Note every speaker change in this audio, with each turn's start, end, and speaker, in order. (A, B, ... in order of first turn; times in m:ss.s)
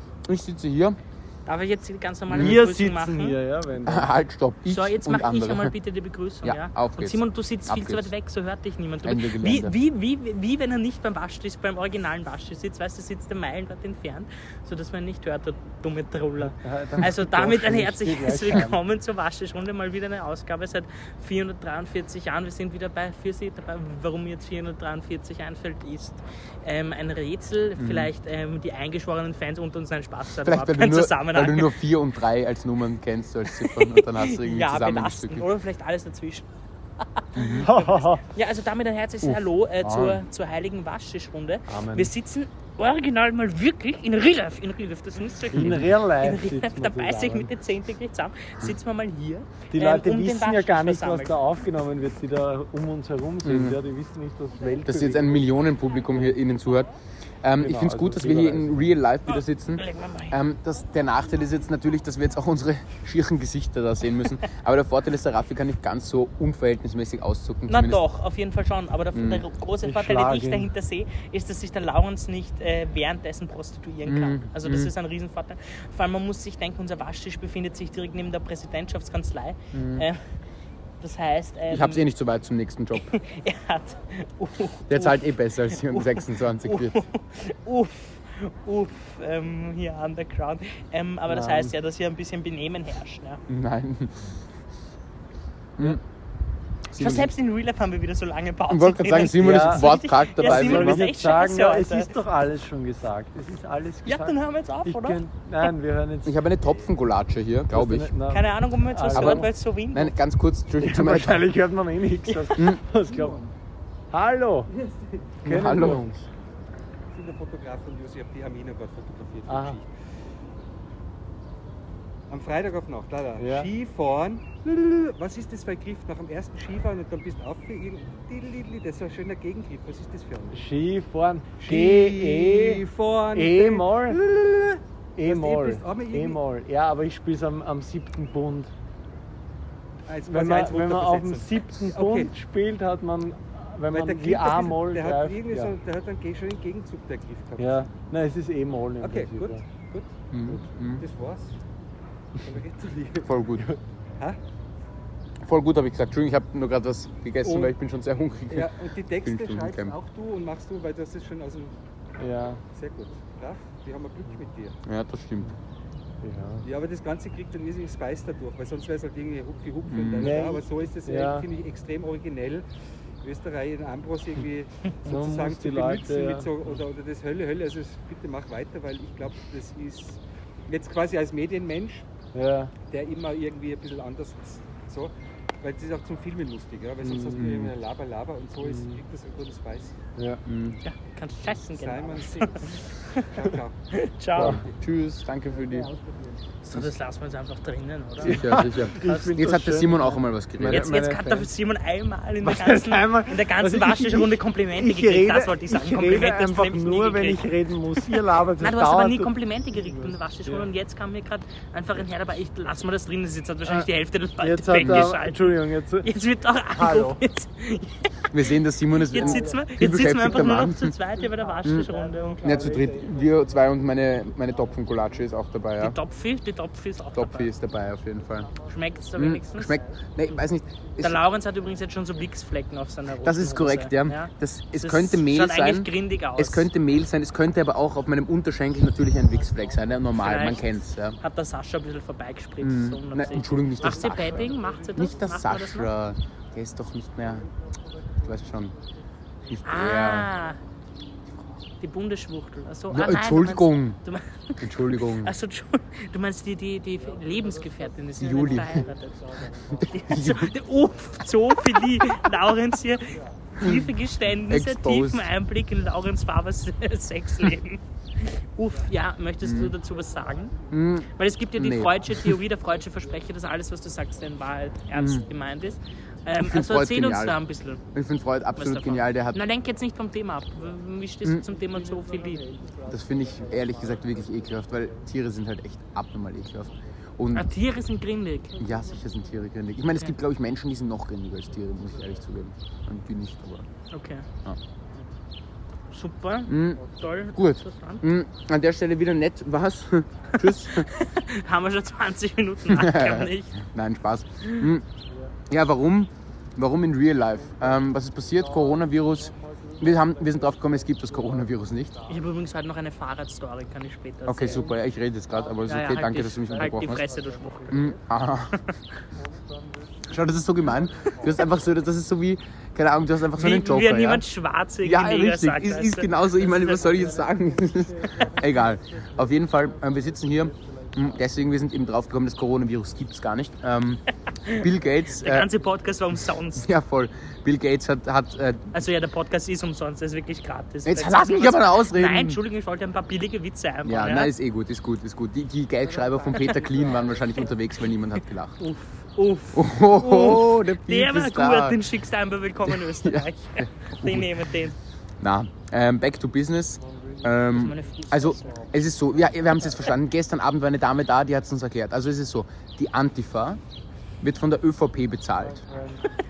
0:00.3-0:01.0 A
0:01.5-0:03.4 B
0:02.3-0:02.6 A
0:02.3-0:04.1 C
0:03.8-0:05.8 A
0:04.7-0:31.7 B
0:06.4-0:08.1 A
0:09.0-0:09.8 A
0:16.4-0:18.8 C
0:27.8-0:28.1 A
0:30.4-0:35.5 A
0:33.5-0:36.5 B
0:37.0-0:51.4 B
0:37.4-0:37.7 A
0:37.4-0:38.2 C
0:39.8-0:40.2 A
0:41.7-0:42.1 C
0:45.5-0:47.5 C
0:49.7-0:55.4 C
0:53.4-0:53.8 A
0:54.8-0:56.9 A
0:57.4-1:08.0 A
0:57.6-0:58.9 C
0:59.3-1:00.4 B
1:07.7-1:20.2 B
1:09.1-1:09.4 A
1:09.8-1:10.7 C
1:14.0-1:14.9 A
1:19.7-1:20.0 A
1:21.0-1:22.1 B
1:21.7-1:23.1 A
1:23.1-1:33.4 B
1:24.9-1:27.0 A
1:31.3-1:31.7 C
1:33.5-1:34.3 A
1:36.9-1:37.3 A
1:37.0-1:42.2 B
1:38.7-1:41.1 A
1:39.3-1:39.9 C
1:40.4-1:46.4 C
1:44.0-1:45.2 B
1:46.2-1:48.1 A
1:47.7-1:49.5 C
1:48.3-1:50.2 B
1:49.1-1:51.5 A
1:50.8-1:53.5 C
1:52.3-1:52.6 B
1:52.6-1:52.8 A
1:54.1-1:54.7 C
1:55.4-1:56.0 A
1:55.4-1:56.3 C
1:57.1-1:59.9 D
1:59.5-1:59.8 C
2:02.3-2:10.7 D
2:03.4-2:03.7 C
2:10.5-2:12.8 C
2:11.6-2:16.4 D
2:13.4-2:14.2 C
2:15.2-2:18.7 C
2:20.1-2:22.3 D
2:20.3-2:25.7 C
2:23.9-2:27.8 D
2:27.6-2:29.6 C
2:29.0-2:30.1 D
2:30.3-2:31.0 A
2:30.9-2:31.5 D
2:32.4-2:33.4 D
2:33.2-2:33.7 A
2:35.4-2:40.0 A
2:37.4-2:37.7 D
2:38.5-2:41.8 D
2:42.2-2:42.6 C
2:42.8-2:44.8 D
2:44.8-2:45.5 A
2:46.2-2:46.6 C
2:46.6-2:52.6 D
2:49.9-2:50.4 A
2:50.2-2:51.5 C
2:53.2-3:02.1 D
2:55.0-2:56.5 C
3:02.3-3:02.7 C
3:02.9-3:10.0 D
3:07.0-3:07.7 C
3:07.4-3:07.7 A
3:08.6-3:09.0 C
3:10.2-3:10.4 C
3:10.4-3:10.8 A
3:10.8-3:13.3 B
3:11.7-3:13.8 D
3:13.9-3:14.6 B
3:14.4-3:14.6 C
3:14.4-3:14.7 D
3:14.6-3:15.9 A
3:16.6-3:19.4 B
3:18.2-3:21.0 A
3:18.2-3:21.5 C
3:20.7-3:42.4 B
3:22.4-3:30.7 C
3:34.4-3:36.1 C
3:34.8-3:35.1 A
3:36.7-3:37.2 C
3:38.3-3:41.0 A
3:41.6-3:41.9 A
3:41.7-3:43.3 C
3:42.4-3:46.0 A
3:45.8-3:47.5 B
3:47.1-3:48.5 A
3:48.7-3:49.8 B
3:49.2-3:51.2 A
3:51.0-3:56.7 B
3:53.2-4:01.2 A
4:00.1-4:05.9 B
4:02.6-4:07.5 A
4:08.2-4:08.8 A
4:09.5-4:10.3 A
4:09.6-4:10.6 B
4:11.8-4:30.6 B
4:12.9-4:14.0 A
4:14.6-4:15.4 A
4:18.2-4:18.9 A
4:19.8-4:20.5 A
4:23.6-4:25.3 A
4:29.4-4:29.8 A
4:30.7-4:32.4 A
4:31.1-4:37.8 B
4:34.9-4:35.3 A
4:36.4-4:37.4 A
4:37.9-4:39.4 A
4:38.6-4:42.4 B
4:42.9-4:47.5 A
4:47.3-4:48.6 B
4:48.6-4:53.7 A
4:53.9-4:54.3 B
4:55.9-4:58.0 B
4:56.5-5:00.9 A
5:00.7-5:03.6 B
5:02.7-5:04.9 A
5:05.5-5:12.0 A
5:12.1-5:14.8 B
5:14.3-5:17.2 A
5:15.6-5:17.9 B
5:17.7-5:18.6 A
5:20.1-5:24.3 A
5:23.3-5:27.1 B
5:24.8-5:35.5 A
5:34.4-5:36.7 B
5:36.6-5:38.9 A
5:38.7-5:44.3 B
5:40.8-5:42.4 A
5:43.8-5:48.6 A
5:48.6-5:54.8 B
5:49.5-5:51.8 A
5:52.7-5:54.5 A
5:55.2-6:03.6 A
5:57.5-5:58.7 B
6:04.2-6:05.6 A
6:05.7-6:06.0 C